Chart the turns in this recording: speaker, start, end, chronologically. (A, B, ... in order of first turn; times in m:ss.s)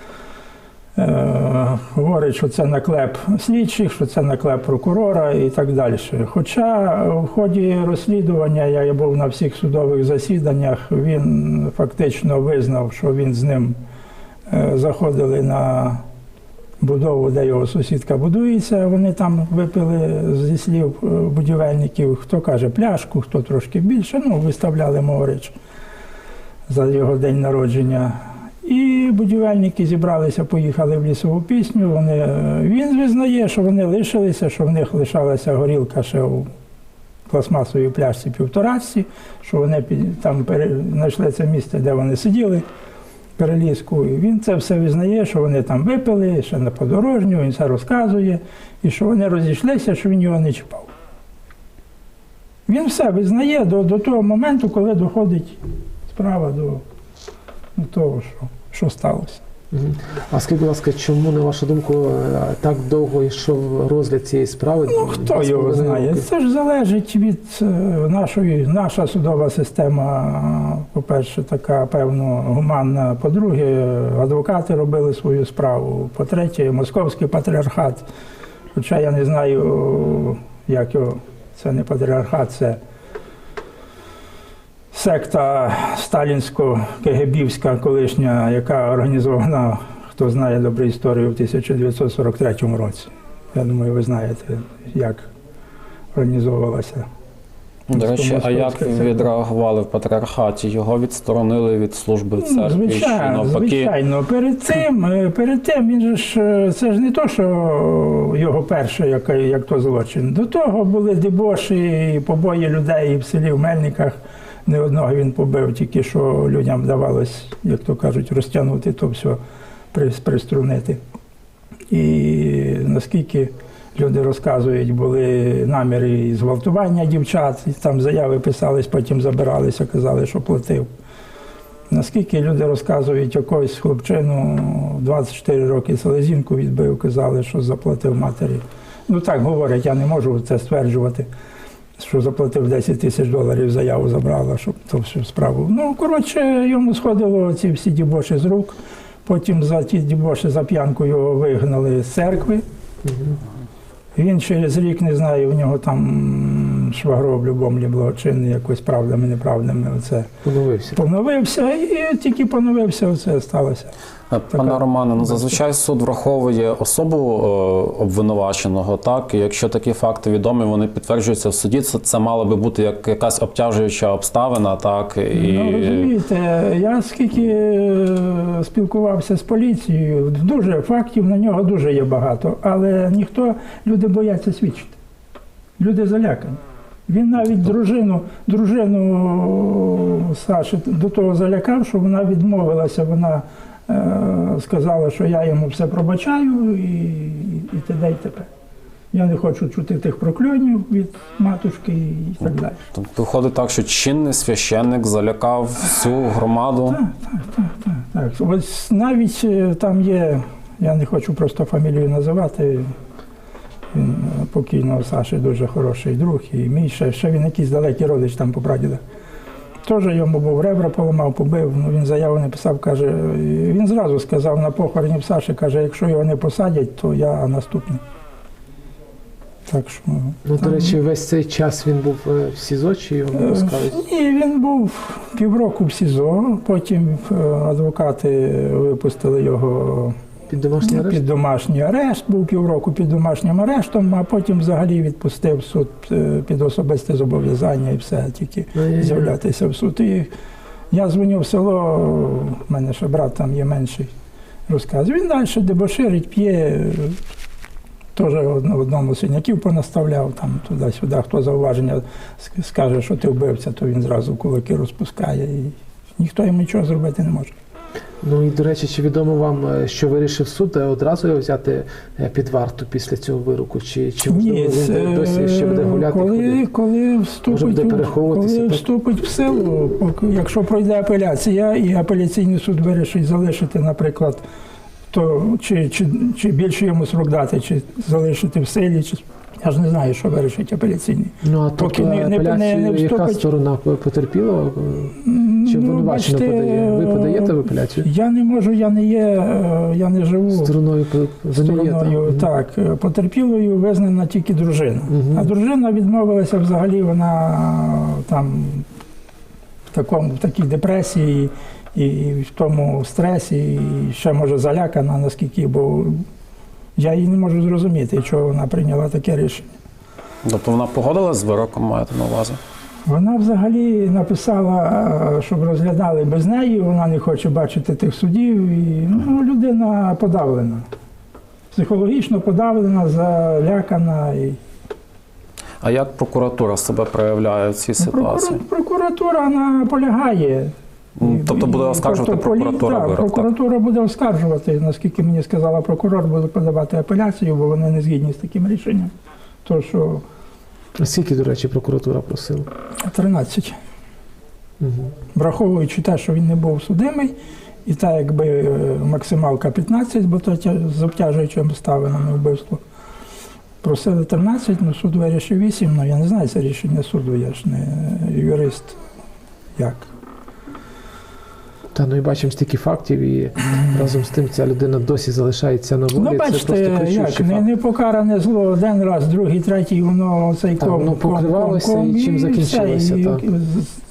0:01.0-0:13.8 A
0:14.5-0:16.0 A
0:16.8-0:25.6 A
0:26.7-0:36.5 A
0:37.3-0:42.6 A
0:43.4-0:50.9 A
0:52.7-0:56.8 A
0:57.8-0:59.4 A
0:59.7-1:06.3 B
1:04.9-1:18.1 A
1:18.7-1:22.8 A
1:24.9-1:35.3 A
1:36.1-1:37.1 A
1:37.9-1:43.9 C
1:37.9-1:39.2 A
1:42.4-1:59.4 A
1:59.9-2:01.0 A
2:01.9-2:10.9 A
2:11.9-2:21.3 A
2:22.0-2:32.6 A
2:33.0-2:33.4 B
2:34.2-2:40.3 A
2:40.4-2:41.0 B
2:40.9-2:43.9 A
2:44.3-2:56.1 C
2:44.5-2:45.6 A
2:55.3-3:05.0 A
3:05.8-3:18.5 A
3:19.1-3:22.8 A
3:22.9-3:27.0 C
3:26.9-3:32.9 A
3:33.9-3:39.0 A
3:39.8-3:48.0 A
3:49.7-3:51.0 A
3:50.4-3:54.0 B
3:53.3-4:00.2 A
4:00.5-4:01.2 B
4:00.8-4:10.3 A
4:08.8-4:09.4 B
4:10.9-4:14.1 A
4:14.7-4:17.2 A
4:18.2-4:27.6 A
4:28.2-4:36.7 B
4:34.3-4:44.4 A
4:37.5-4:38.8 B
4:45.1-4:53.4 A
4:51.4-4:58.1 B
4:55.2-5:00.7 A
5:00.5-5:02.5 B
5:01.5-5:08.9 A
5:05.1-5:05.5 B
5:09.9-5:16.2 A
5:17.0-5:19.7 A
5:20.4-5:22.6 C
5:23.1-5:30.8 A
5:31.7-5:34.6 A
5:35.8-5:38.6 C
5:38.0-5:49.1 A
5:41.2-5:43.5 C
5:49.6-5:50.2 A
5:51.0-5:52.7 B
5:53.0-5:53.8 A
5:54.8-5:55.1 B
5:55.3-5:57.4 A
5:57.9-6:02.8 A
6:03.8-6:09.0 A
6:09.8-6:10.1 A
6:11.9-6:17.7 B
6:16.1-6:24.0 A
6:20.8-6:23.4 B